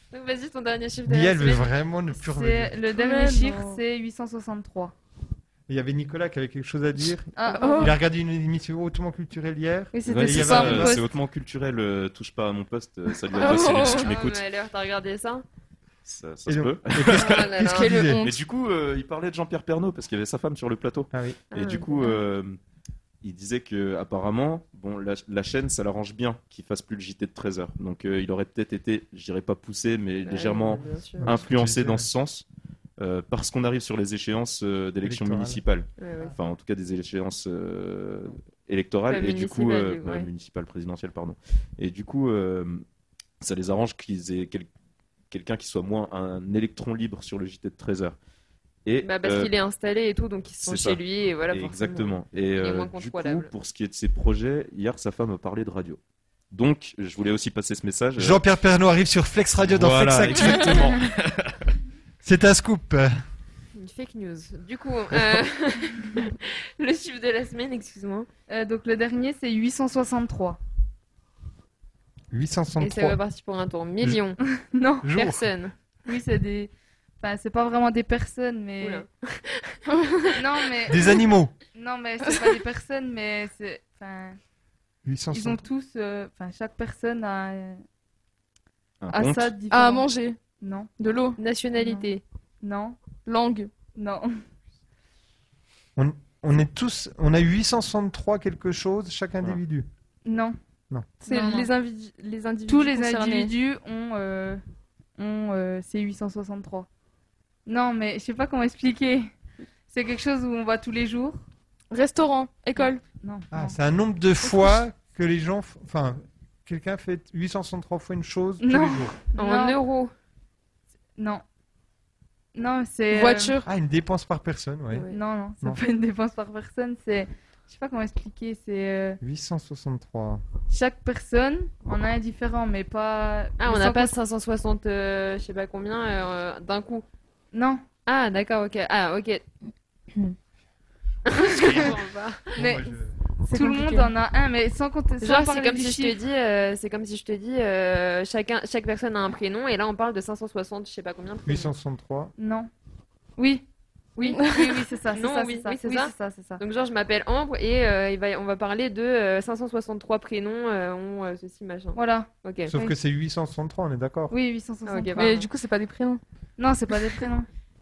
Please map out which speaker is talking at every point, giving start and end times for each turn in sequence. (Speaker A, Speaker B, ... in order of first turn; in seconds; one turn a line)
Speaker A: 0.1-1.7
Speaker B: 1.1-2.8
Speaker C: 2.2-4.9
Speaker D: 3.0-3.8
Speaker B: 5.7-11.0
Speaker C: 7.3-8.0
Speaker D: 7.5-8.0
Speaker C: 9.9-11.1
Speaker E: 10.1-14.4
Speaker D: 13.3-14.1
Speaker A: 13.4-15.4
Speaker E: 16.1-17.6
Speaker B: 16.5-18.2
Speaker A: 17.0-18.1
Speaker D: 17.9-18.4
Speaker E: 18.2-22.6
Speaker B: 21.1-21.4
Speaker A: 21.5-22.2
Speaker E: 23.2-32.5
Speaker A: 30.2-31.4
Speaker B: 31.2-32.1
Speaker E: 33.0-42.8
Speaker B: 35.0-35.6
Speaker A: 36.0-36.4
Speaker A: 39.1-40.3
Speaker E: 43.4-44.7
Speaker E: 45.3-48.2
Speaker E: 48.9-49.5
Speaker A: 49.0-53.5
Speaker E: 50.6-51.0
Speaker E: 51.5-56.0
Speaker E: 56.5-58.4
Speaker B: 58.2-60.9
Speaker E: 59.7-61.7
Speaker B: 62.2-63.1
Speaker A: 63.7-68.3
Speaker C: 68.5-70.6
Speaker B: 72.3-73.2
Speaker A: 72.8-74.4
Speaker C: 74.4-75.1
Speaker B: 75.0-75.5
Speaker A: 75.1-75.8
Speaker C: 76.1-79.0
Speaker A: 78.8-79.8
Speaker C: 80.4-81.2
Speaker B: 80.9-81.5
Speaker C: 81.7-84.4
Speaker D: 82.2-82.6
Speaker B: 85.0-85.7
Speaker C: 85.3-87.8
Speaker E: 89.0-89.6
Speaker C: 89.1-90.1
Speaker D: 89.7-90.4
Speaker C: 90.6-90.9
Speaker D: 91.0-91.4
Speaker A: 91.4-92.2
Speaker C: 91.8-92.1
Speaker C: 92.6-93.0
Speaker D: 93.3-93.7
Speaker C: 94.0-94.4
Speaker B: 96.0-99.9
Speaker C: 100.3-100.6
Speaker C: 101.2-101.7
Speaker D: 101.2-103.5
Speaker C: 102.7-104.6
Speaker C: 105.2-106.9
Speaker C: 107.7-109.3
Speaker C: 109.9-111.4
Speaker D: 111.9-113.0
Speaker C: 112.8-113.8
Speaker B: 113.5-119.2
Speaker C: 118.6-119.8
Speaker A: 119.3-120.1
Speaker C: 121.2-121.5
Speaker C: 122.5-123.6
Speaker D: 123.1-123.7
Speaker B: 123.7-125.1
Speaker A: 124.9-125.2
Speaker C: 125.1-129.2
Speaker B: 129.2-130.4
Speaker C: 130.7-134.1
Speaker A: 133.6-137.1
Speaker C: 137.5-137.8
Speaker A: 138.1-139.4
Speaker A: 141.3-142.5
Speaker B: 142.6-143.2
Speaker D: 143.4-144.1
Speaker C: 143.5-146.2
Speaker A: 145.2-151.7
Speaker B: 151.5-152.3
Speaker C: 152.4-152.7
Speaker C: 153.4-153.7
Speaker A: 154.2-162.7
Speaker C: 154.2-156.6
Speaker C: 161.9-162.9
Speaker B: 162.7-164.3
Speaker C: 164.3-165.3
Speaker A: 164.9-165.5
Speaker D: 165.2-166.2
Speaker C: 166.6-167.5